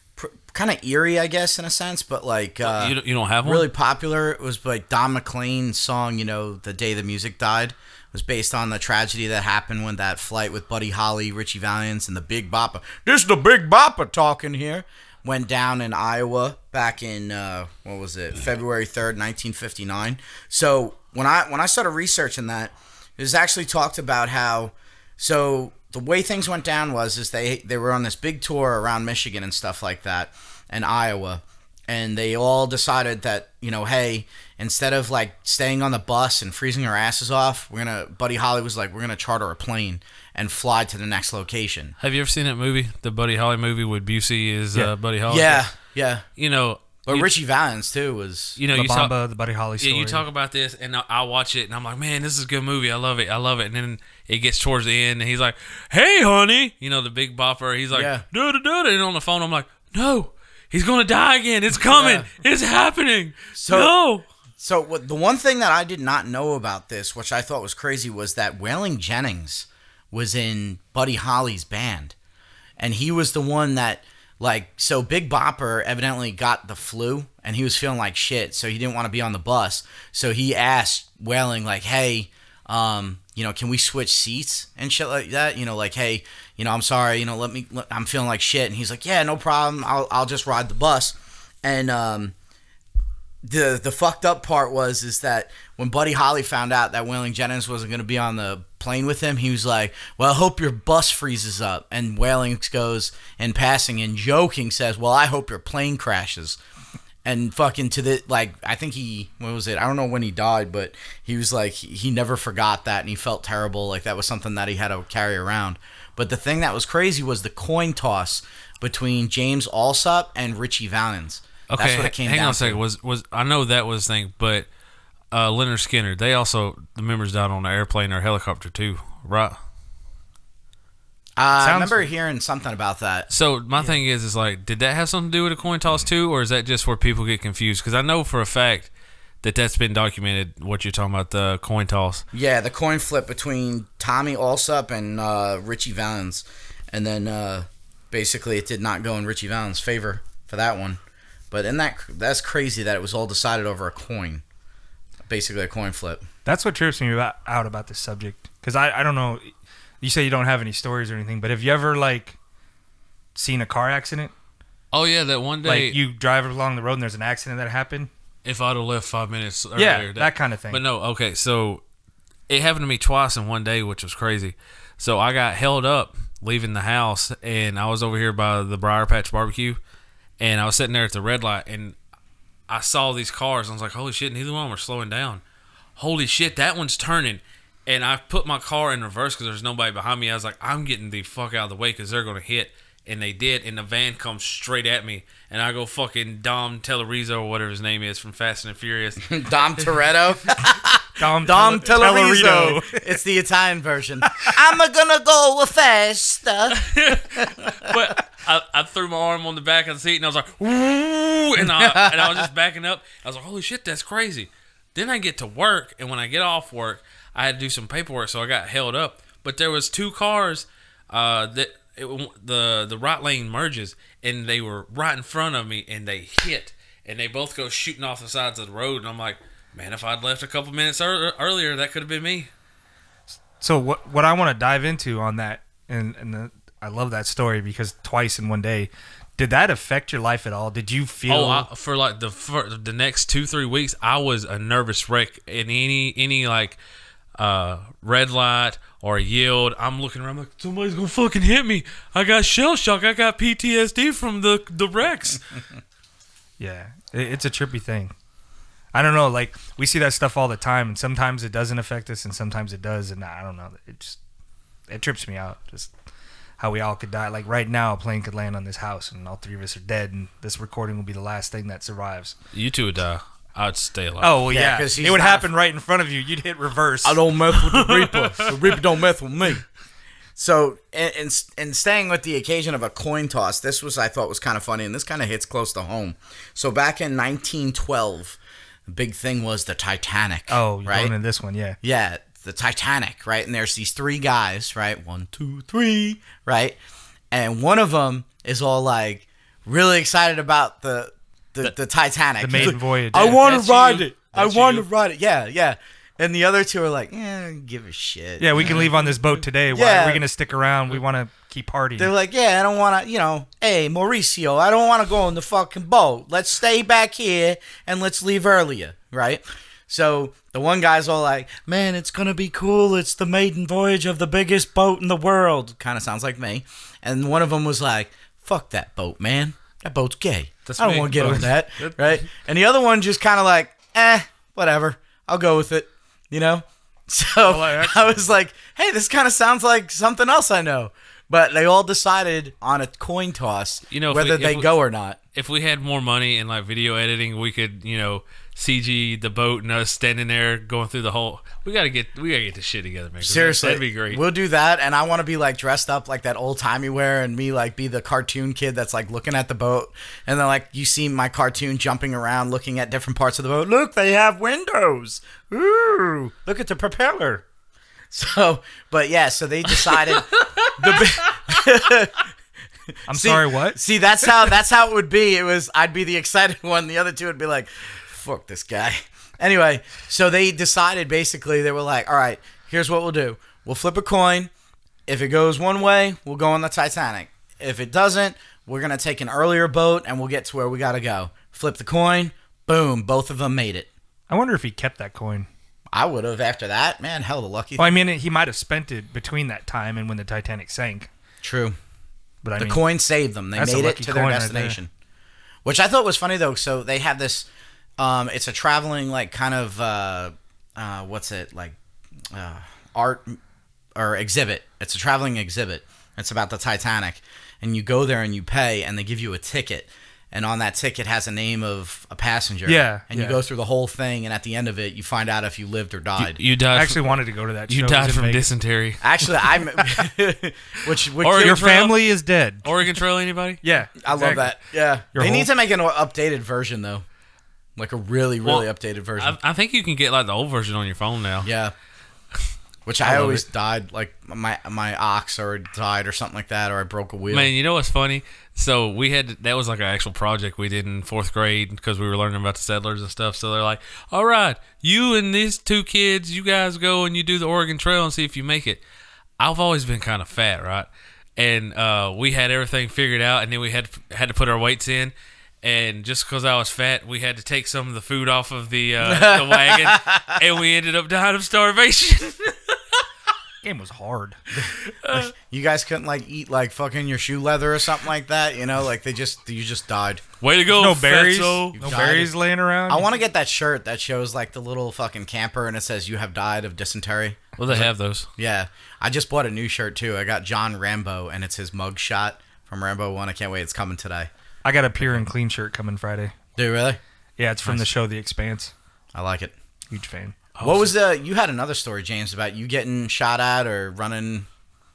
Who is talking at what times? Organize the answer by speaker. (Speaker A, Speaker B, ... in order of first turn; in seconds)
Speaker A: 0.2-42.0, 45.3-46.2, 47.0-48.6, 57.9-58.2, 61.9-62.3, 63.5-63.9, 64.6-72.1, 72.8-92.3, 93.4-106.6, 107.2-122.8, 131.4-133.3, 142.3-151.0, 151.5-154.4, 155.3-156.2, 199.2-207.9, 211.7-212.4, 274.5-275.5, 277.0-279.6, 280.4-291.1, 291.8-296.8, 297.3-308.9, 309.7-310.2, 312.0-345.2, 353.2-367.4, 368.1-372.3, 373.1-384.5, 385.1-393.9, 395.9-397.9, 401.4-401.8, 402.6-404.9, 405.6-407.5, 408.0-411.8, 412.3-413.4, 413.9-426.4, 429.0-431.8, 434.0-437.0, 437.8-439.4, 441.4-441.7, 442.9-447.5, 469.0-470.4, 474.5-480.2, 481.7-482.3, 482.9-487.5, 488.4-494.3, 496.6-497.0, 499.1-499.5, 500.6-504.5
Speaker B: 2.6-3.7, 42.0-45.6, 46.4-47.3, 48.6-49.1, 49.8-64.2, 121.7-124.7, 125.3-129.6, 133.3-138.9, 139.4-142.2, 164.9-166.0, 168.4-171.8, 172.5-179.8, 180.4-181.9, 182.7-185.4, 186.0-199.4, 206.7-232.5, 241.3-246.8, 247.4-255.4, 272.5-274.4, 277.6-278.5, 303.2-304.9, 330.6-332.1, 343.9-344.7, 345.3-354.2, 370.2-371.1, 426.2-429.0, 431.2-432.0, 432.6-433.6, 438.4-441.5, 443.0-443.4, 447.3-458.8, 459.4-472.7, 474.9-475.3, 480.4-481.8, 487.6-488.3, 500.6-500.9
Speaker C: 48.7-50.2, 131.6-132.1, 156.4-162.4, 163.3-164.3, 165.6-168.1, 169.8-170.8, 201.2-203.1, 233.6-241.7, 256.6-258.1, 258.9-264.2, 264.9-265.9, 266.6-272.3, 274.2-277.2, 290.5-291.8, 302.4-303.5, 308.4-312.1, 331.2-331.4, 337.4-338.3, 373.1-373.8, 394.3-395.5, 397.8-401.1, 402.4-402.8, 403.6-404.8, 422.6-423.4, 426.7-428.5, 431.4-432.7, 433.6-434.5, 435.1-435.5, 473.6-474.4, 480.7-483.1, 494.6-496.3, 497.4-498.7, 499.9-500.4